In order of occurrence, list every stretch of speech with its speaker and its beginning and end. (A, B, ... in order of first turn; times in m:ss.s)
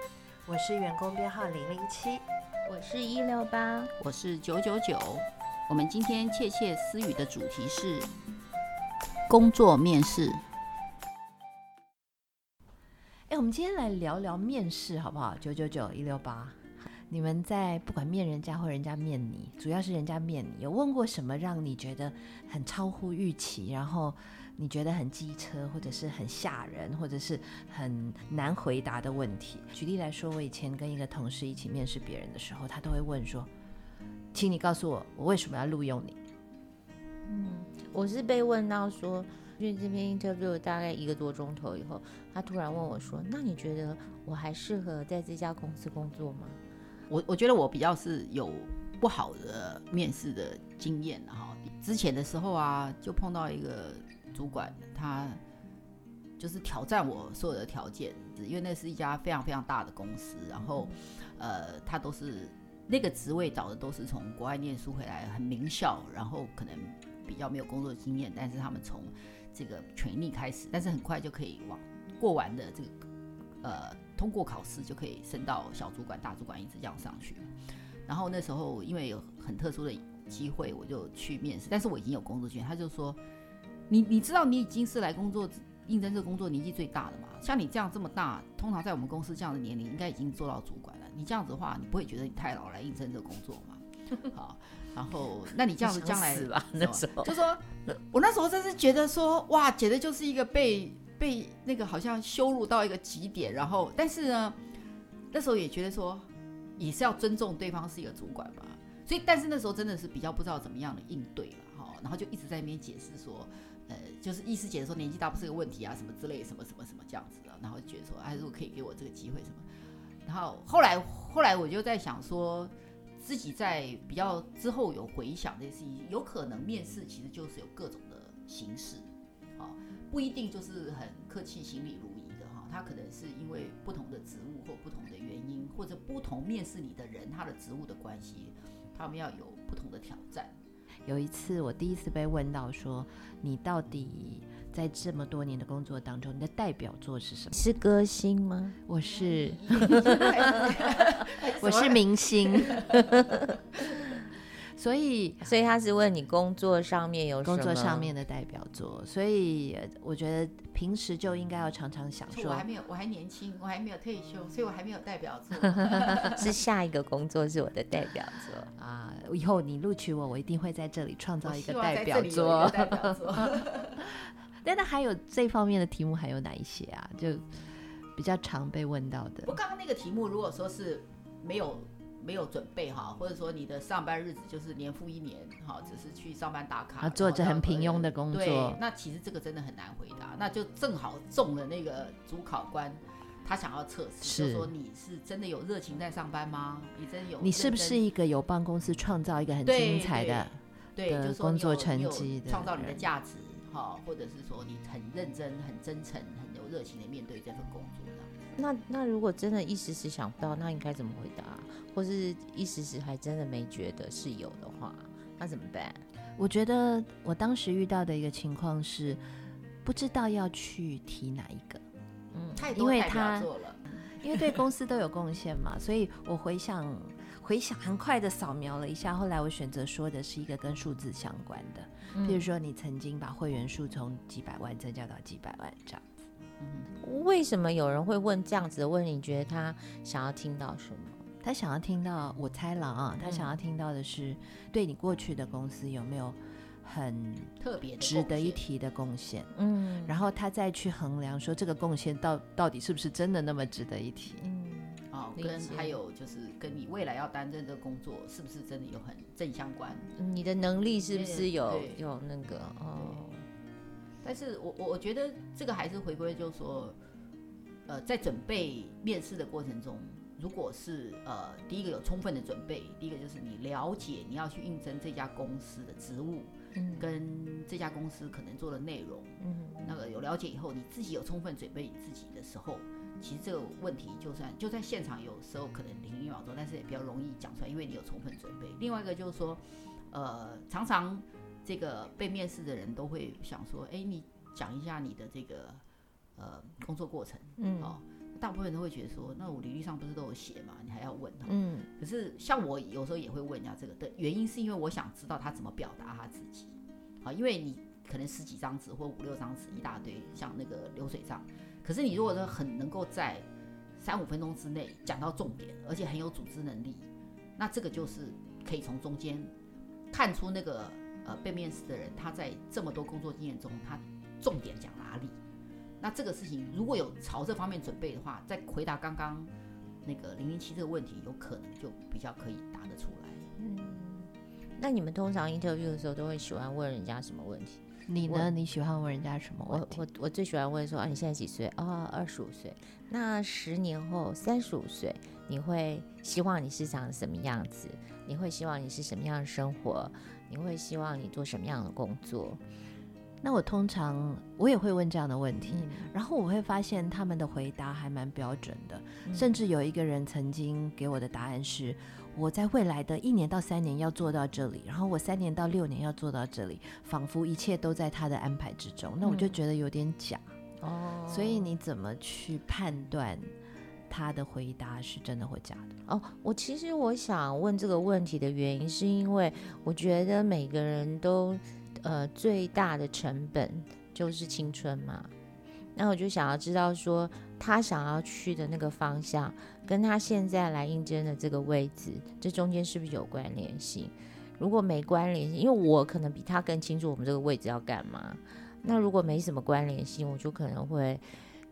0:00.4-0:02.2 A
0:02.6-0:03.9 B
0:04.0-0:08.1 C
0:09.3-0:10.4 C
0:13.3-0:33.5 A
0:34.3-0:36.2 A
0:37.3-0:46.6 B
0:47.1-0:55.4 C
0:56.4-1:13.0 C
1:13.6-1:17.5 C
1:18.1-1:23.2 C
1:23.9-1:44.6 C
1:35.8-1:37.3 B
1:45.3-1:59.6 C
2:00.2-2:20.6 C
2:21.0-2:27.6 A
2:27.5-2:28.8 B
2:28.8-2:30.5 A
2:29.0-2:33.3 C
2:29.9-2:30.2 B
2:31.6-2:32.8 A
2:34.7-2:35.4 A
2:35.4-2:38.1 B
2:37.4-2:42.6 A
2:42.3-2:46.4 C
2:46.4-2:48.7 B
2:48.8-2:53.4 A
2:51.4-2:54.1 C
2:54.6-2:59.6 A
2:59.4-3:18.0 C
3:07.0-3:08.8 A
3:14.2-3:14.7 A
3:17.4-3:23.1 A
3:19.6-3:28.3 C
3:28.5-3:36.0 B
3:36.4-3:39.2 A
3:39.8-3:41.8 A
3:42.3-3:43.3 B
3:42.6-3:43.8 C
3:42.7-3:43.5 A
3:44.2-3:56.1 A
3:52.1-3:52.5 B
3:56.6-3:56.9 C
3:57.0-4:01.2 B
4:01.4-4:09.5 A
4:03.2-4:03.5 B
4:07.6-4:08.6 C
4:09.5-4:10.2 B
4:10.0-4:14.5 A
4:14.4-4:16.0 B
4:15.1-4:20.1 C
4:20.2-4:23.4 B
4:21.1-4:22.0 C
4:22.9-4:23.3 C
4:24.2-4:27.0 C
4:27.9-4:55.8 C
4:36.7-4:37.0 B
4:39.4-4:40.0 B
4:56.4-5:19.5 C
4:57.6-4:58.0 B
5:01.4-5:01.9 B
5:20.1-5:25.4 C
5:26.0-5:29.5 C
5:30.0-5:33.5 C
5:33.6-5:38.5 B
5:38.1-5:40.0 A
5:39.7-5:52.6 B
5:53.4-6:10.5 A
5:55.6-5:56.1 B
5:59.2-5:59.5 B
6:09.2-6:09.6 B
6:10.8-6:11.7 B
6:11.3-6:13.5 A
6:14.1-6:15.9 A
6:16.1-6:25.3 B
6:26.0-6:41.2 B